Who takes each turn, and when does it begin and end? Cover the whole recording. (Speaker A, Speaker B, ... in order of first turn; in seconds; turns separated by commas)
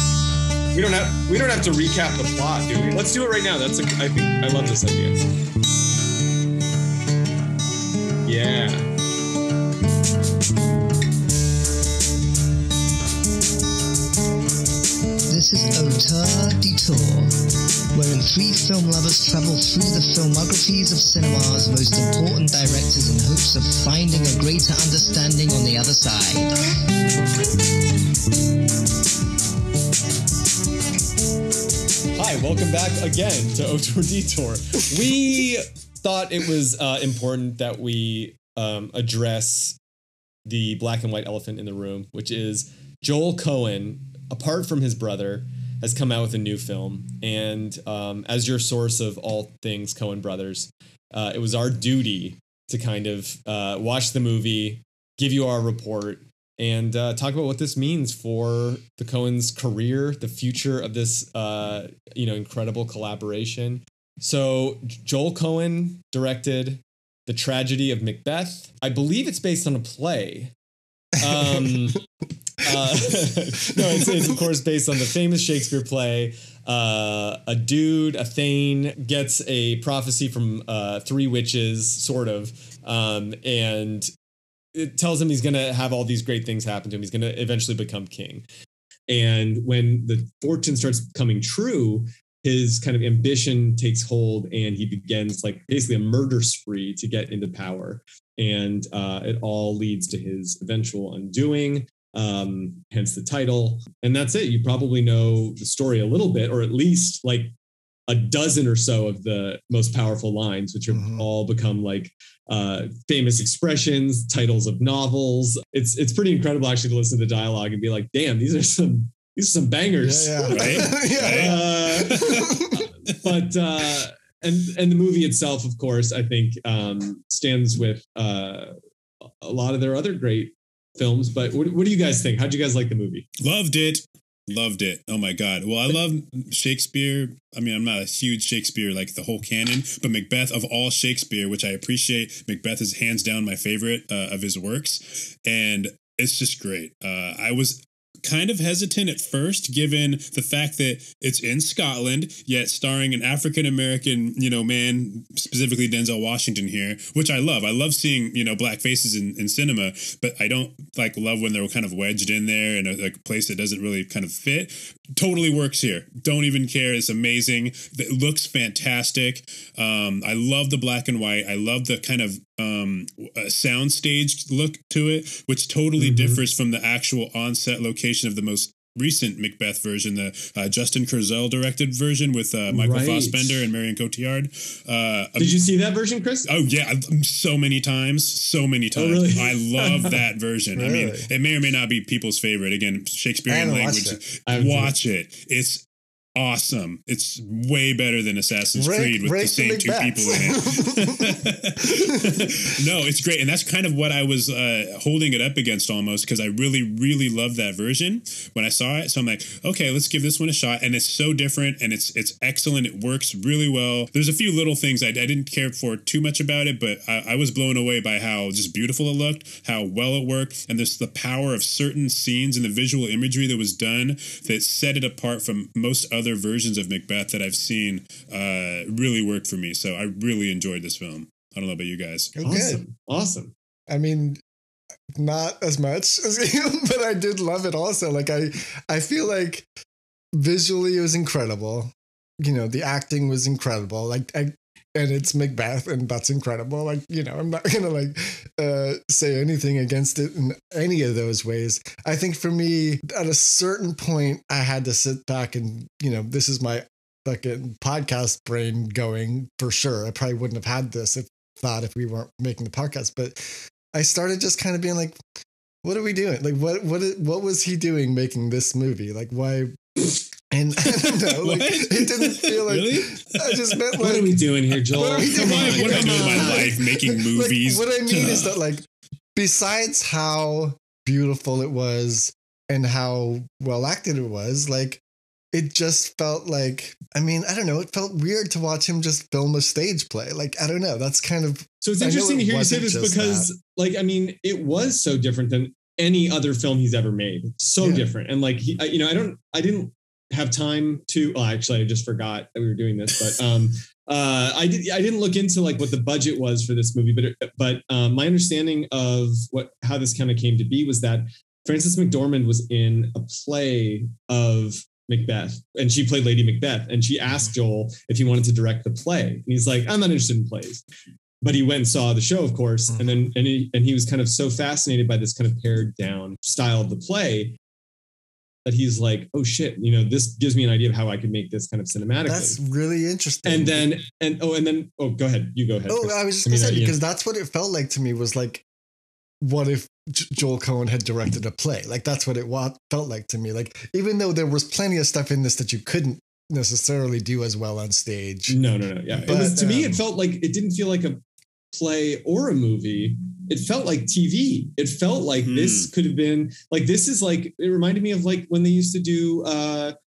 Speaker A: 0.7-5.3, Speaker A: 8.2-8.9, Speaker B: 15.3-17.3, Speaker B: 17.9-26.6, Speaker A: 32.1-39.8, Speaker A: 40.5-70.5, Speaker A: 71.2-72.0, Speaker C: 71.2-71.8, Speaker A: 72.6-84.1, Speaker A: 84.8-88.5, Speaker A: 89.1-107.5, Speaker A: 108.1-128.7, Speaker C: 110.9-111.3, Speaker C: 120.0-122.8, Speaker D: 120.5-122.5, Speaker A: 129.4-133.3, Speaker D: 133.4-185.6, Speaker A: 176.0-176.4, Speaker A: 182.7-183.6, Speaker A: 185.4-186.5, Speaker D: 186.5-195.8, Speaker A: 189.0-190.2, Speaker C: 190.8-191.3, Speaker C: 193.5-194.2, Speaker A: 194.5-194.9, Speaker D: 196.4-232.3, Speaker C: 198.8-202.6, Speaker C: 232.3-232.8, Speaker A: 232.4-233.5, Speaker C: 233.9-234.4, Speaker C: 235.1-239.7, Speaker C: 240.3-265.2, Speaker C: 265.8-274.4, Speaker D: 270.9-273.9, Speaker A: 274.0-276.8, Speaker C: 274.9-278.8, Speaker D: 275.0-278.5, Speaker C: 279.4-285.0, Speaker C: 285.5-293.5, Speaker A: 291.8-320.8, Speaker C: 297.8-298.1, Speaker A: 321.4-327.6, Speaker A: 328.7-332.6, Speaker C: 332.3-333.9, Speaker A: 333.5-337.0, Speaker C: 335.9-338.6, Speaker C: 339.4-348.6, Speaker A: 348.5-351.2, Speaker D: 349.1-349.4, Speaker C: 349.3-350.0, Speaker A: 351.7-359.9, Speaker D: 355.4-355.9